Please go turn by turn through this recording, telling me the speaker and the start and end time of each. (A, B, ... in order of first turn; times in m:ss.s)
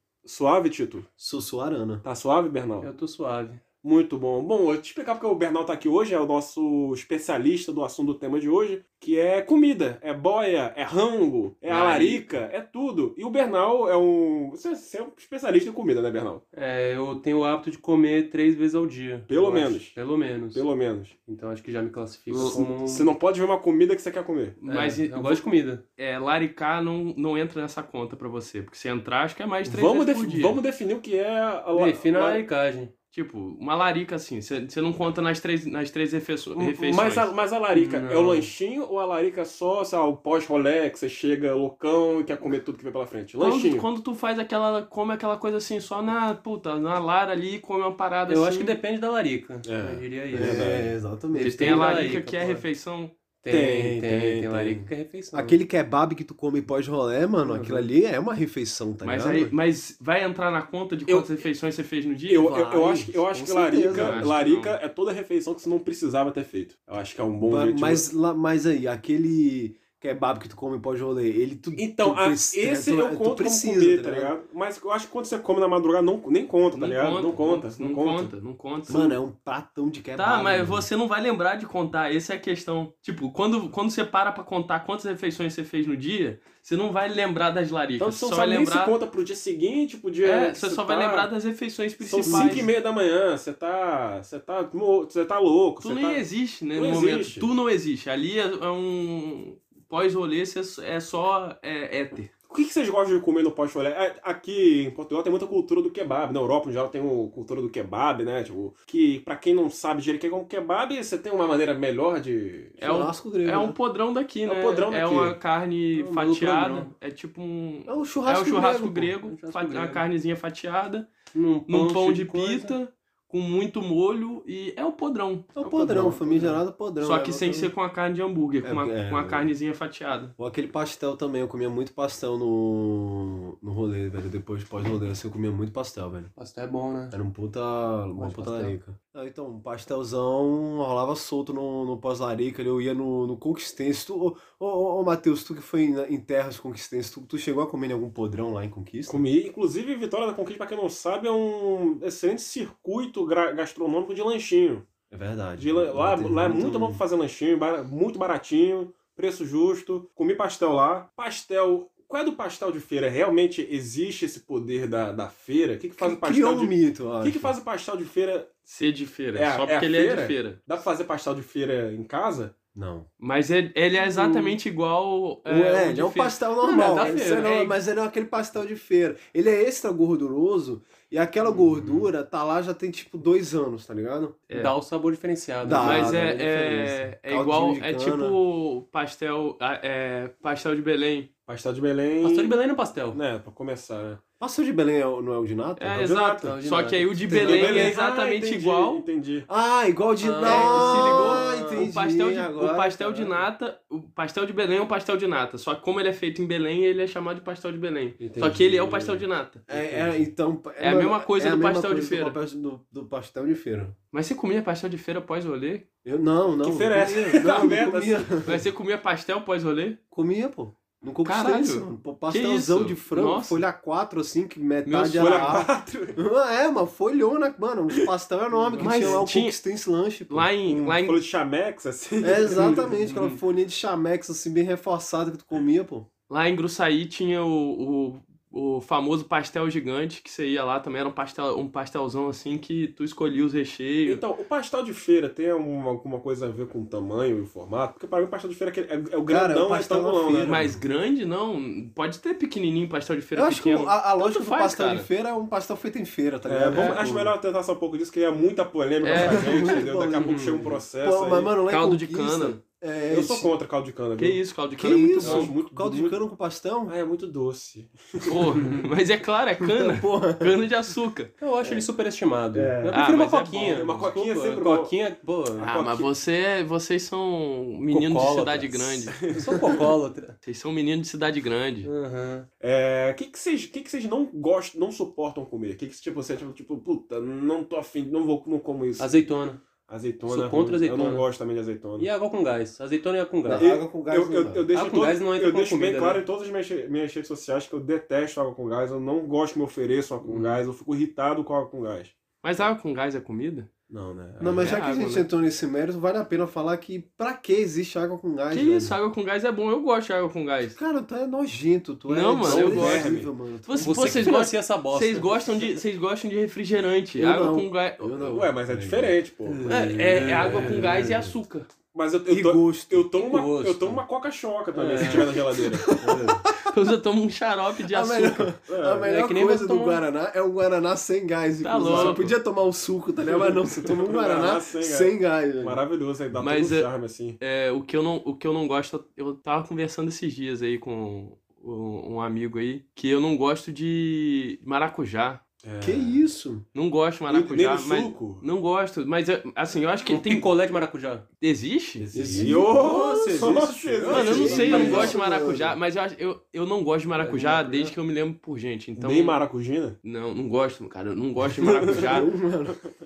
0:00.2-0:01.1 A
0:01.2-0:02.0 B
0:02.0-0:02.9 A
0:02.8-0:03.6 C
0:03.8-0:16.4 A
0:11.7-0:12.2 D
0:16.5-0:20.6 C
0:19.3-0:20.0 A
0:20.5-0:21.2 A
0:21.2-0:23.1 C
0:22.3-0:24.6 A
0:24.6-0:25.4 D
0:24.7-0:25.8 C
0:26.0-0:30.6 D
0:29.6-0:32.4 A
0:31.7-0:32.9 C
0:33.1-0:37.3 D
0:36.6-0:43.9 A
0:37.7-0:38.5 C
0:43.4-0:48.8 D
0:48.3-0:50.8 C
0:49.6-0:50.9 A
0:50.3-0:52.1 B
0:51.3-0:52.6 C
0:51.3-0:53.1 D
0:53.4-0:55.6 C
0:53.5-0:54.9 A
0:55.3-0:59.5 B
0:57.4-0:57.9 C
0:59.0-1:02.8 D
1:01.1-1:01.4 A
1:02.3-1:08.0 A
1:02.7-1:04.3 B
1:03.9-1:04.8 D
1:07.4-1:14.4 B
1:11.8-1:18.3 A
1:16.8-1:19.2 D
1:18.9-1:20.9 B
1:20.2-1:29.0 D
1:28.0-1:31.3 A
1:30.2-1:32.7 D
1:32.0-1:37.5 A
1:32.2-1:32.7 B
1:35.8-1:42.3 D
1:42.5-1:52.8 A
1:52.8-1:53.8 B
1:52.8-2:01.1 D
1:54.5-1:55.4 A
1:56.0-1:56.9 C
1:57.9-1:59.1 B
1:59.3-2:00.0 C
2:01.3-2:02.8 C
2:01.7-2:06.1 D
2:05.6-2:07.7 B
2:05.8-2:06.6 C
2:07.0-2:10.4 D
2:08.6-2:09.5 B
2:10.4-2:16.3 B
2:16.4-2:17.2 C
2:17.1-2:29.2 B
2:18.2-2:18.8 C
2:29.1-2:34.9 A
2:35.1-2:37.0 B
2:35.6-2:48.5 A
2:46.0-2:47.5 B
2:48.7-2:50.6 D
2:49.4-2:52.5 A
2:52.7-2:53.1 B
2:53.2-2:57.7 D
2:54.0-2:54.6 C
2:55.4-3:04.4 B
2:56.6-2:57.5 C
3:04.5-3:04.7 D
3:04.5-3:06.2 C
3:05.6-3:08.4 B
3:05.8-3:11.3 D
3:11.5-3:12.6 A
3:12.2-3:13.2 C
3:13.1-3:14.2 A
3:14.4-3:16.2 B
3:15.8-3:19.0 D
3:16.0-3:16.5 A
3:16.4-3:17.8 C
3:17.3-3:17.9 B
3:17.3-3:19.5 A
3:19.5-3:23.4 B
3:20.2-3:21.9 C
3:20.4-3:29.7 D
3:28.2-3:30.3 A
3:29.7-3:34.0 B
3:30.8-3:32.4 D
3:34.1-3:35.8 D
3:36.0-3:38.6 B
3:36.6-3:38.4 A
3:38.4-3:40.0 D
3:40.1-3:51.0 B
3:41.2-3:43.6 D
3:44.8-3:45.6 D
3:45.2-3:46.2 A
3:48.8-3:49.6 D
3:48.8-3:49.2 A
3:50.3-3:51.2 D
3:50.8-3:52.9 A
3:52.2-3:56.1 B
3:52.6-3:53.4 C
3:56.3-4:04.2 D
4:04.1-4:10.7 A
4:09.3-4:10.8 B
4:10.4-4:15.1 D
4:13.3-4:17.3 B
4:16.5-4:21.5 A
4:16.7-4:17.0 D
4:19.0-4:19.6 D
4:19.2-4:23.5 B
4:20.2-4:20.8 C
4:21.7-4:22.6 D
4:23.1-4:24.4 A
4:24.2-4:25.5 D
4:24.8-4:27.0 B
4:25.2-4:26.2 A
4:26.9-4:28.4 A
4:28.3-4:31.3 D
4:29.6-4:30.6 B
4:31.4-4:35.7 C
4:32.5-4:33.0 B
4:32.9-4:33.8 D
4:33.7-4:34.9 A
4:35.6-4:36.1 A
4:35.6-4:39.2 D
4:37.9-4:40.4 C
4:39.2-4:39.9 A
4:40.4-4:41.9 D
4:41.8-4:42.5 C
4:42.6-4:49.2 A
4:49.0-4:49.6 C
4:49.9-4:52.1 A
4:50.3-4:51.2 C
4:52.0-4:53.6 C
4:53.4-4:54.6 B
4:53.5-5:02.1 A
4:54.7-4:56.2 C
5:00.2-5:00.6 C
5:02.4-5:03.7 D
5:03.9-5:04.7 A
5:04.4-5:08.9 B
5:04.6-5:05.3 D
5:08.5-5:10.8 D
5:10.8-5:14.3 B
5:12.1-5:18.4 D
5:12.4-5:13.3 A
5:13.8-5:15.6 C
5:17.2-5:21.4 B
5:18.3-5:19.7 A
5:19.5-5:21.1 C
5:19.7-5:21.7 D
5:20.4-5:20.7 A
5:21.9-5:25.9 A
5:22.3-5:23.1 B
5:23.2-5:24.0 C
5:24.7-5:26.1 C
5:26.0-5:26.5 B
5:26.5-5:28.6 D
5:27.9-5:35.8 B
5:28.7-5:29.1 A
5:29.0-5:30.0 C
5:31.6-5:32.3 D
5:31.9-5:32.3 A
5:33.8-5:37.4 A
5:36.4-5:45.4 D
5:45.6-5:46.2 A
5:45.8-5:46.6 B
5:46.7-5:50.5 D
5:47.3-5:48.4 A
5:50.1-5:51.2 C
5:51.4-5:52.1 D
5:52.1-5:55.2 C
5:52.1-5:55.8 B
5:52.2-5:55.1 A
5:54.1-5:59.4 D
5:57.2-5:57.9 C
5:59.0-6:00.0 A
6:00.0-6:02.3 D
6:01.8-6:02.8 B